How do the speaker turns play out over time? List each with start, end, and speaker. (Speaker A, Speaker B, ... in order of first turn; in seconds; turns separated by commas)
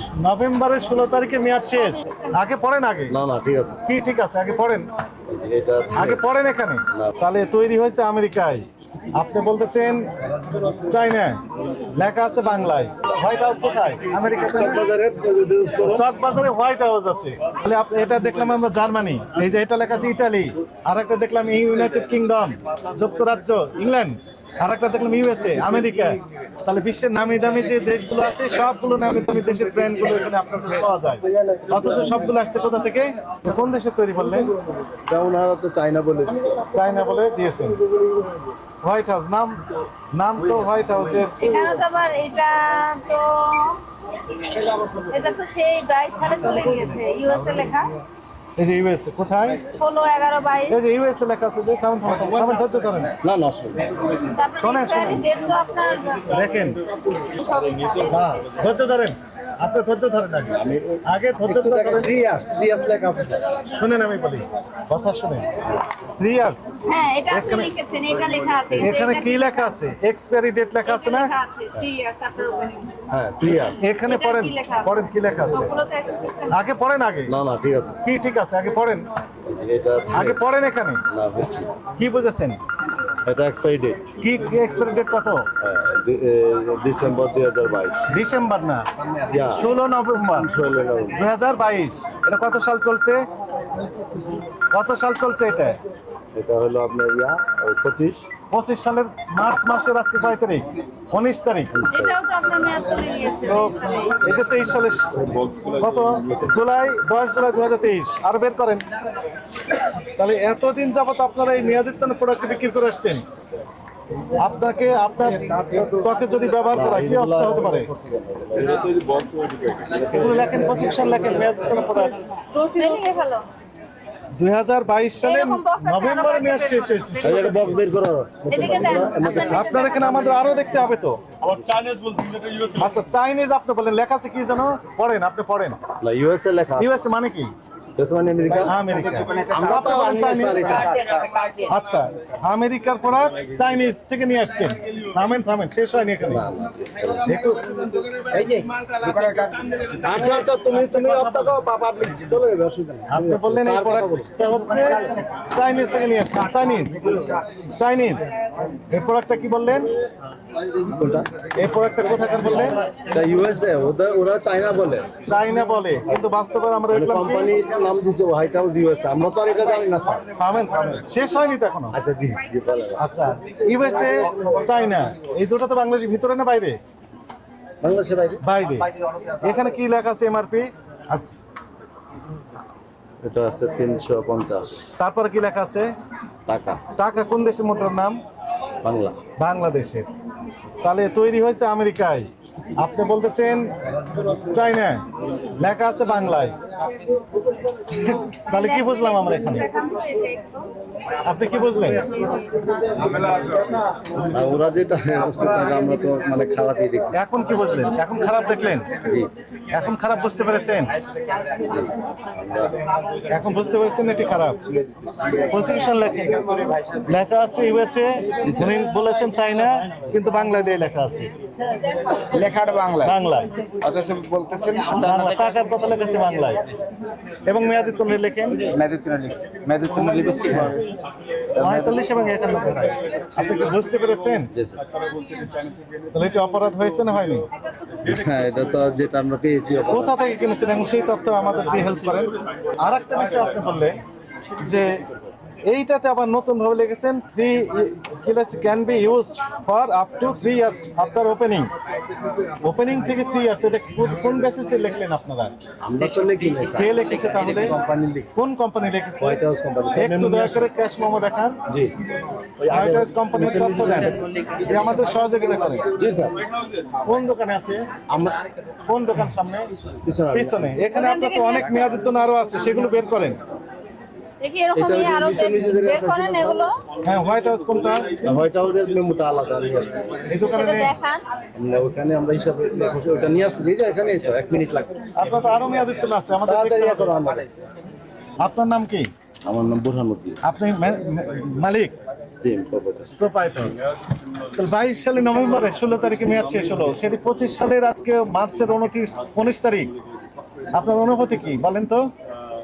Speaker A: 0.2-3.1, Speaker B: 1.8-2.3, Speaker C: 3.1-3.8, Speaker A: 3.9-4.9, Speaker C: 5.3-6.2, Speaker A: 6.0-10.1, Speaker A: 10.8-11.4, Speaker A: 11.9-14.9, Speaker C: 14.3-16.1, Speaker A: 15.8-34.5, Speaker C: 31.2-32.3, Speaker C: 35.0-36.7, Speaker A: 36.7-37.8, Speaker A: 38.8-41.4, Speaker B: 41.4-48.0, Speaker A: 48.6-49.6, Speaker B: 49.7-50.8, Speaker A: 50.7-53.1, Speaker C: 53.2-54.2, Speaker B: 54.3-56.4, Speaker A: 54.6-55.2, Speaker A: 56.3-56.8, Speaker B: 57.2-58.7, Speaker A: 58.1-62.1, Speaker C: 60.5-63.4, Speaker A: 63.7-65.5, Speaker A: 66.2-67.7, Speaker B: 66.9-69.8, Speaker A: 68.7-71.3, Speaker B: 70.8-72.9, Speaker C: 73.1-73.8, Speaker A: 73.5-75.8, Speaker B: 74.0-76.6, Speaker A: 76.5-77.3, Speaker C: 77.3-78.0, Speaker A: 78.0-79.1, Speaker C: 79.5-80.4, Speaker A: 80.1-81.0, Speaker C: 81.1-81.7, Speaker A: 81.9-82.6, Speaker C: 83.2-84.1, Speaker A: 84.2-85.5, Speaker C: 85.6-88.1, Speaker A: 88.1-88.8, Speaker C: 89.3-89.7, Speaker A: 89.4-90.5, Speaker C: 90.4-91.3, Speaker A: 91.1-93.2, Speaker A: 94.7-95.8, Speaker C: 96.3-98.3, Speaker A: 98.5-101.7, Speaker C: 101.7-102.2, Speaker B: 101.9-104.2, Speaker A: 103.4-108.8, Speaker A: 110.2-113.2, Speaker A: 114.4-117.9, Speaker C: 116.7-119.0, Speaker C: 119.7-121.6, Speaker A: 120.1-122.2, Speaker B: 122.5-123.5, Speaker A: 124.3-127.7, Speaker B: 125.2-127.7, Speaker C: 127.2-129.8, Speaker B: 128.5-130.8, Speaker A: 129.3-131.2, Speaker C: 131.5-131.8, Speaker A: 132.7-135.8, Speaker C: 136.0-137.1, Speaker A: 136.8-137.5, Speaker C: 137.9-141.1, Speaker A: 138.6-140.9, Speaker D: 139.1-140.8, Speaker B: 140.8-141.7, Speaker A: 141.7-146.5, Speaker C: 146.3-147.5, Speaker A: 147.3-147.6, Speaker C: 148.3-148.7, Speaker D: 148.9-150.0, Speaker C: 150.0-154.3, Speaker A: 153.1-157.1, Speaker A: 157.8-158.3, Speaker A: 158.9-159.9, Speaker C: 160.5-161.3, Speaker A: 161.5-162.8, Speaker C: 162.9-165.1, Speaker A: 165.2-167.5, Speaker C: 166.9-170.3, Speaker A: 170.3-172.0, Speaker C: 171.9-173.0, Speaker A: 173.0-176.8, Speaker C: 177.8-178.4, Speaker A: 178.4-181.2, Speaker C: 183.2-184.8, Speaker A: 185.0-185.9, Speaker C: 186.5-186.8, Speaker A: 186.9-188.2, Speaker C: 188.8-189.2, Speaker A: 189.4-190.1, Speaker A: 190.8-193.7, Speaker A: 194.5-195.0, Speaker A: 195.6-196.6, Speaker A: 197.9-199.7, Speaker B: 198.5-200.7, Speaker A: 201.2-202.1, Speaker B: 201.8-202.6, Speaker C: 204.2-207.2, Speaker A: 207.1-208.9, Speaker C: 209.0-209.3, Speaker A: 209.7-210.9, Speaker C: 211.6-212.8, Speaker A: 213.3-214.6, Speaker A: 215.3-216.4, Speaker A: 217.1-221.3, Speaker D: 222.2-223.2, Speaker A: 223.0-223.5, Speaker D: 223.7-225.6, Speaker A: 224.9-226.8, Speaker A: 227.4-228.7, Speaker D: 228.7-230.8, Speaker C: 230.3-230.8, Speaker A: 230.5-230.8, Speaker A: 231.6-234.5, Speaker D: 231.6-232.0, Speaker C: 234.5-234.8, Speaker A: 236.1-237.4, Speaker C: 238.0-240.2, Speaker A: 239.9-244.0, Speaker A: 244.6-245.0, Speaker A: 245.6-251.7, Speaker A: 252.6-255.5, Speaker C: 255.8-258.4, Speaker A: 256.7-257.8, Speaker A: 258.3-259.4, Speaker C: 259.2-260.7, Speaker A: 259.9-261.6, Speaker C: 261.7-261.9, Speaker C: 262.6-264.2, Speaker A: 262.7-265.9, Speaker C: 265.9-266.4, Speaker A: 267.1-267.9, Speaker C: 268.1-268.4, Speaker A: 268.9-269.7, Speaker C: 270.0-270.8, Speaker A: 270.3-273.4, Speaker B: 270.9-272.0, Speaker B: 274.4-276.8, Speaker C: 274.7-276.7, Speaker A: 277.0-278.1, Speaker C: 278.2-280.2, Speaker A: 280.3-280.9, Speaker B: 280.4-281.2, Speaker C: 281.6-284.9, Speaker A: 285.1-287.1, Speaker C: 286.4-287.5, Speaker A: 288.4-289.1, Speaker C: 289.4-290.4, Speaker A: 290.4-291.9, Speaker C: 292.4-293.1, Speaker A: 293.2-293.8, Speaker A: 294.6-299.9, Speaker A: 300.7-302.1